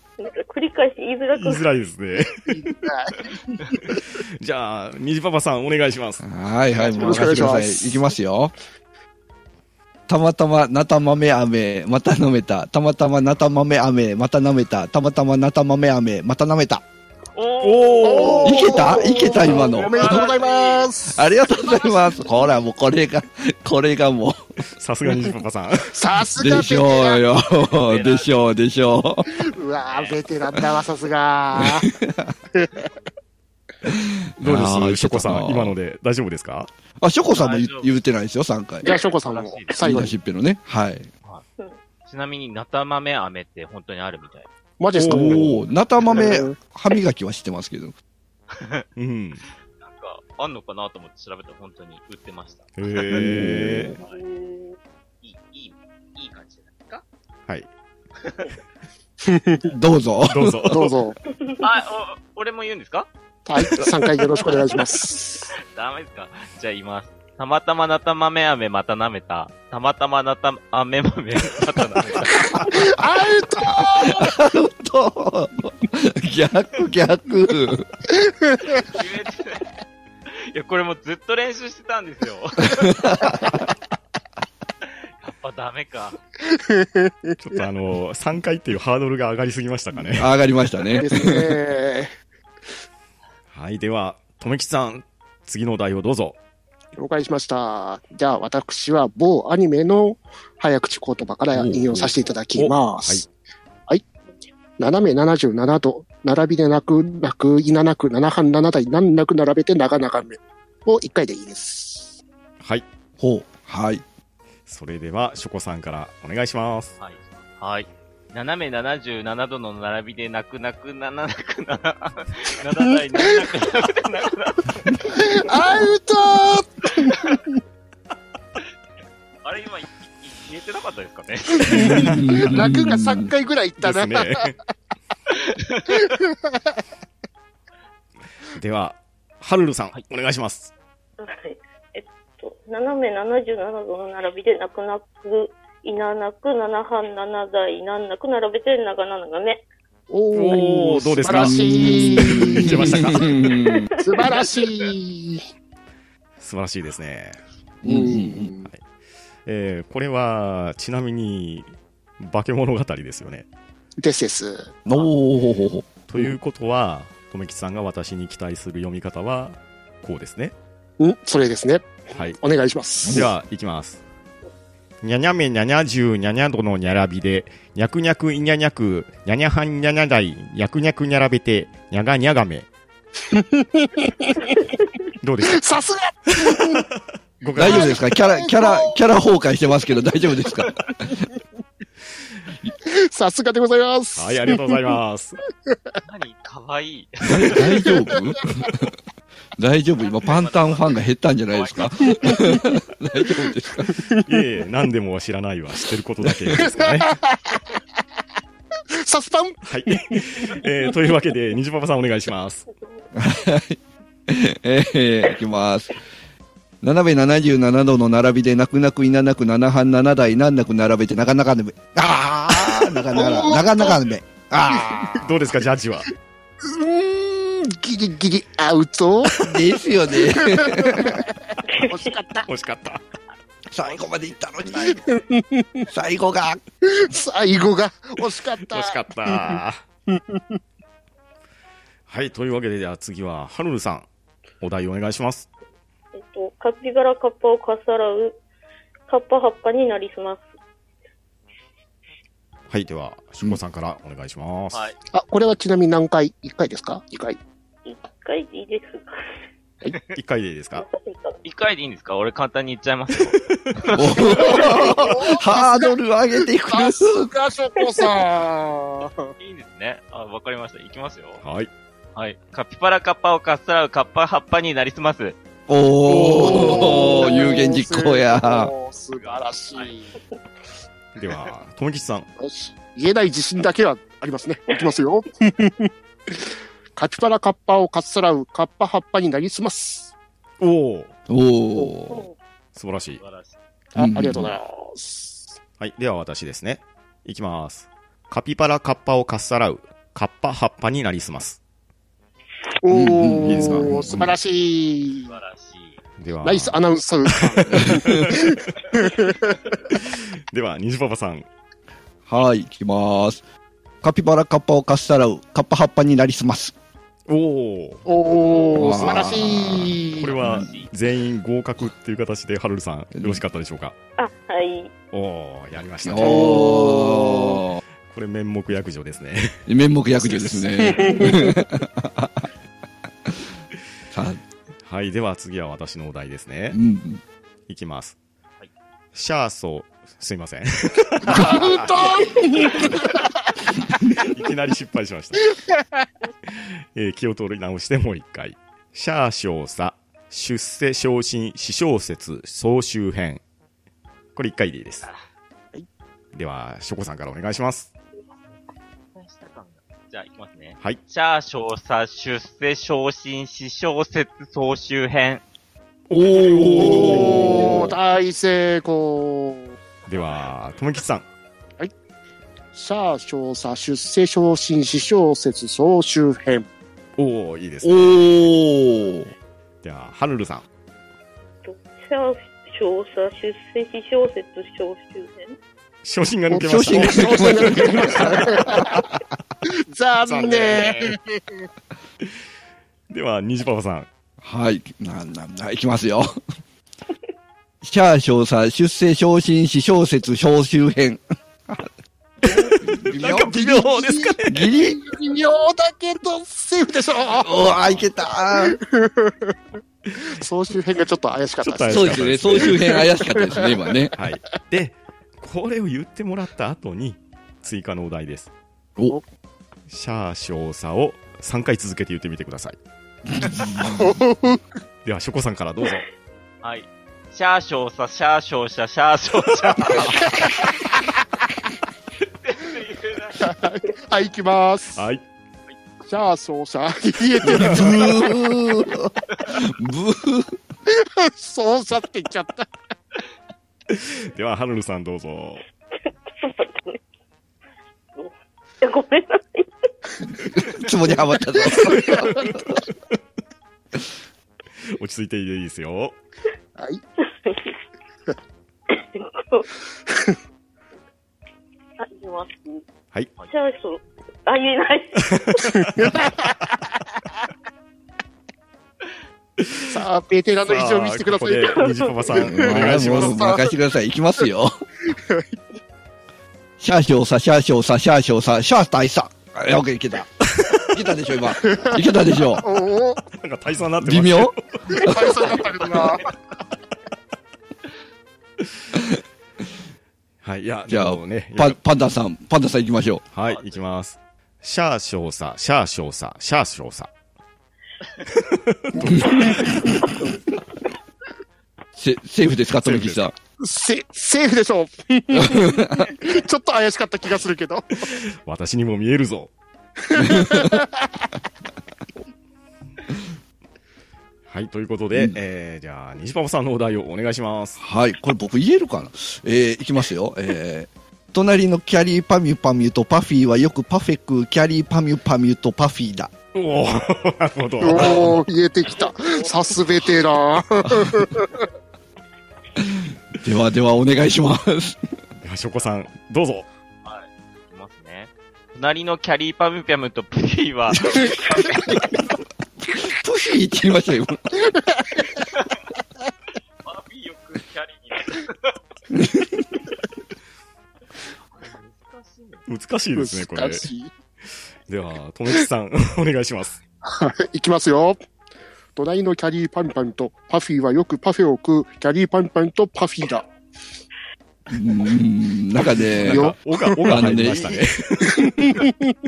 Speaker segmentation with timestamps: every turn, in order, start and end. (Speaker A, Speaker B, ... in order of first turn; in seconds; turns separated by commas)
Speaker A: 0.2-1.7, Speaker B: 1.3-2.8, Speaker C: 2.5-3.8, Speaker B: 3.9-6.2, Speaker D: 6.2-8.5, Speaker C: 6.7-8.0, Speaker B: 6.8-7.7, Speaker D: 10.1-16.8, Speaker E: 17.3-20.9, Speaker B: 17.6-18.4, Speaker C: 18.0-22.3, Speaker D: 18.4-20.3, Speaker D: 21.1-24.4, Speaker B: 24.8-25.9, Speaker C: 25.9-27.2, Speaker D: 26.4-29.4, Speaker E: 27.7-28.5, Speaker C: 29.3-31.9, Speaker E: 29.9-30.2, Speaker D: 31.9-32.3, Speaker D: 33.9-35.8, Speaker B: 34.4-36.7, Speaker D: 37.0-38.9, Speaker E: 37.4-38.0, Speaker C: 38.9-40.1, Speaker E: 39.2-39.8, Speaker D: 39.8-41.1, Speaker E: 42.1-44.5, Speaker C: 44.8-45.5, Speaker B: 45.0-45.6, Speaker D: 45.1-48.0, Speaker C: 46.1-46.6, Speaker B: 49.0-49.4, Speaker E: 49.8-54.2, Speaker B: 52.8-54.0, Speaker D: 53.1-54.0, Speaker A: 54.0-54.8, Speaker E: 55.2-57.0, Speaker E: 58.2-58.5, Speaker C: 59.2-59.7, Speaker D: 59.6-60.6, Speaker B: 60.3-60.9, Speaker C: 60.7-61.2, Speaker A: 61.3-61.5, Speaker E: 61.6-63.1, Speaker C: 63.5-65.5, Speaker E: 65.7-72.7, Speaker C: 72.5-74.3, Speaker D: 73.8-78.0, Speaker E: 78.8-79.7, Speaker E: 80.5-83.3, Speaker D: 82.7-83.6, Speaker E: 84.9-86.2, Speaker C: 86.5-87.3, Speaker B: 87.4-90.3, Speaker D: 90.1-91.5, Speaker C: 91.0-92.1, Speaker B: 93.5-96.4, Speaker C: 97.0-103.3, Speaker D: 101.5-102.1, Speaker B: 102.5-103.3, Speaker C: 104.8-112.2, Speaker B: 112.6-112.9, Speaker D: 113.2-114.0, Speaker B: 114.7-117.0, Speaker E: 117.0-125.1, Speaker C: 122.8-123.4, Speaker C: 125.1-127.6, Speaker E: 129.4-131.8, Speaker C: 131.6-134.5, Speaker D: 131.7-133.3, Speaker B: 133.8-134.6, Speaker E: 135.5-136.1, Speaker C: 135.9-136.6, Speaker B: 138.5-140.7, Speaker A: 141.2-149.7, Speaker C: 150.1-153.0, Speaker B: 150.3-153.3, Speaker D: 151.2-153.8, Speaker A: 153.1-154.3, Speaker C: 154.0-155.4, Speaker B: 156.4-157.4, Speaker D: 157.8-158.5, Speaker C: 157.8-158.7, Speaker B: 159.5-163.5, Speaker C: 164.0-164.7, Speaker D: 164.9-166.4, Speaker B: 166.1-170.6, Speaker C: 171.0-173.3, Speaker B: 172.1-172.4, Speaker B: 173.1-174.0, Speaker B: 175.0-182.7, Speaker C: 183.3-184.6, Speaker B: 185.2-185.6, Speaker C: 185.4-186.8, Speaker B: 186.4-188.0, Speaker D: 187.6-191.2, Speaker C: 187.6-189.0, Speaker C: 192.9-194.8, Speaker B: 194.2-195.4, Speaker E: 196.0-197.6, Speaker D: 197.2-198.9, Speaker D: 199.6-203.9, Speaker E: 200.0-202.7, Speaker C: 203.8-204.2, Speaker B: 204.2-207.1, Speaker D: 206.2-206.6, Speaker C: 206.6-207.8, Speaker C: 209.0-210.5, Speaker B: 209.6-212.7, Speaker A: 212.7-213.1, Speaker D: 213.2-213.8, Speaker D: 214.3-216.0, Speaker D: 216.8-225.2, Speaker C: 222.6-224.0, Speaker C: 224.7-225.6, Speaker B: 225.2-226.1, Speaker C: 226.6-229.5, Speaker D: 229.4-231.2, Speaker C: 230.2-232.5, Speaker A: 231.7-232.1, Speaker B: 232.4-233.0, Speaker D: 233.7-235.0, Speaker E: 233.8-235.2, Speaker C: 235.1-235.8, Speaker D: 235.9-236.6, Speaker C: 236.9-240.6, Speaker B: 238.6-239.8, Speaker B: 242.1-244.1, Speaker B: 244.6-245.5, Speaker A: 246.2-248.4, Speaker A: 249.1-250.5, Speaker B: 252.7-254.9, Speaker C: 255.1-257.4, Speaker A: 257.9-259.1, Speaker B: 260.1-260.9, Speaker A: 260.8-261.4, Speaker E: 261.4-263.4, Speaker B: 263.5-263.8, Speaker D: 263.9-267.3, Speaker E: 264.1-264.8, Speaker C: 264.4-265.9, Speaker C: 266.7-269.3, Speaker E: 269.4-271.4, Speaker B: 271.4-271.7, Speaker E: 272.1-275.4, Speaker D: 275.7-278.7, Speaker C: 276.1-280.2, Speaker E: 279.1-280.0, Speaker B: 281.2-282.3, Speaker C: 282.4-290.1, Speaker B: 290.6-291.1, Speaker D: 291.3-292.2, Speaker A: 291.8-292.4, Speaker B: 292.8-293.2, Speaker E: 293.2-293.6, Speaker C: 293.9-295.6, Speaker D: 294.0-294.5, Speaker B: 295.8-301.6, Speaker C: 302.8-305.3, Speaker D: 302.9-304.3, Speaker B: 303.4-304.2, Speaker E: 305.3-306.0, Speaker B: 306.2-308.5, Speaker C: 306.4-309.5, Speaker D: 307.8-308.1, Speaker B: 309.9-311.5, Speaker D: 312.3-313.4, Speaker D: 314.0-316.8, Speaker B: 317.3-318.0, Speaker C: 318.1-320.3, Speaker B: 318.7-324.0, Speaker D: 318.8-319.8, Speaker E: 320.2-320.9, Speaker A: 324.2-324.9, Speaker B: 325.1-329.6, Speaker D: 326.0-327.8, Speaker C: 326.2-327.0, Speaker D: 329.7-332.5, Speaker B: 330.3-330.7, Speaker C: 330.8-331.5, Speaker D: 334.1-334.4, Speaker B: 334.8-336.8, Speaker D: 336.7-337.2, Speaker B: 337.7-338.2, Speaker B: 339.1-343.0, Speaker C: 341.3-343.7, Speaker B: 344.1-345.6, Speaker C: 345.5-346.0, Speaker B: 346.5-353.4, Speaker B: 354.4-355.1, Speaker B: 356.3-357.9, Speaker E: 359.1-365.4, Speaker D: 366.1-367.9, Speaker B: 366.3-367.9, Speaker C: 366.8-369.8, Speaker B: 370.1-371.3, Speaker C: 372.7-376.7, Speaker B: 377.2-378.2, Speaker D: 377.8-379.3, Speaker B: 379.8-380.7, Speaker A: 381.6-385.6, Speaker B: 386.0-388.6, Speaker C: 386.5-389.1, Speaker D: 386.6-388.0, Speaker C: 389.9-391.6, Speaker B: 390.2-391.1, Speaker B: 393.1-394.1, Speaker D: 394.4-396.4, Speaker D: 397.8-401.9, Speaker B: 402.4-404.6, Speaker D: 402.8-403.9, Speaker C: 403.6-407.7, Speaker D: 404.5-405.0, Speaker D: 407.3-408.8, Speaker C: 408.6-409.6, Speaker C: 410.2-414.0, Speaker B: 411.6-413.0, Speaker D: 411.9-414.1, Speaker B: 414.2-418.5, Speaker B: 419.9-422.8, Speaker D: 423.4-424.1, Speaker C: 423.5-424.6, Speaker B: 425.1-426.1, Speaker E: 426.6-430.6, Speaker E: 432.4-433.5, Speaker C: 433.4-435.0, Speaker B: 434.9-435.2, Speaker C: 436.0-438.2, Speaker D: 437.4-440.5, Speaker C: 440.9-442.7, Speaker B: 443.9-445.7, Speaker A: 446.4-447.0, Speaker A: 448.1-449.7, Speaker D: 450.6-452.7, Speaker C: 452.0-452.4, Speaker B: 454.9-456.2, Speaker C: 456.8-457.0, Speaker A: 457.2-457.8, Speaker A: 458.9-459.8, Speaker A: 462.0-462.8, Speaker A: 463.5-465.6, Speaker C: 465.6-466.7, Speaker B: 469.6-469.9, Speaker C: 469.9-471.7, Speaker B: 470.7-473.4, Speaker A: 471.6-472.4, Speaker D: 472.3-474.7, Speaker C: 472.5-473.7, Speaker C: 475.1-475.6, Speaker D: 476.8-482.6, Speaker C: 482.6-483.2, Speaker B: 483.3-485.8, Speaker D: 484.0-485.4, Speaker C: 484.9-486.3, Speaker B: 490.4-491.8, Speaker D: 490.9-493.2, Speaker B: 493.3-497.1, Speaker E: 493.5-493.8, Speaker B: 498.3-499.9, Speaker C: 499.6-499.9, Speaker D: 502.0-503.4, Speaker B: 502.8-503.3, Speaker C: 503.6-508.0, Speaker B: 508.1-509.5, Speaker C: 510.1-511.3, Speaker D: 510.1-510.7, Speaker B: 514.5-517.8, Speaker D: 517.8-526.3, Speaker B: 526.5-528.4, Speaker C: 527.8-531.7, Speaker D: 532.8-535.0, Speaker B: 535.4-536.7, Speaker E: 537.0-542.2, Speaker D: 542.8-544.7, Speaker E: 545.4-545.8, Speaker E: 546.8-548.6, Speaker D: 549.1-549.6, Speaker E: 551.5-552.7, Speaker B: 552.7-553.9, Speaker C: 553.2-554.1, Speaker B: 554.9-556.8, Speaker C: 557.0-558.2, Speaker C: 559.0-563.5, Speaker D: 564.7-566.5, Speaker B: 566.1-568.9, Speaker C: 566.2-567.2, Speaker D: 567.1-567.8, Speaker C: 568.5-569.1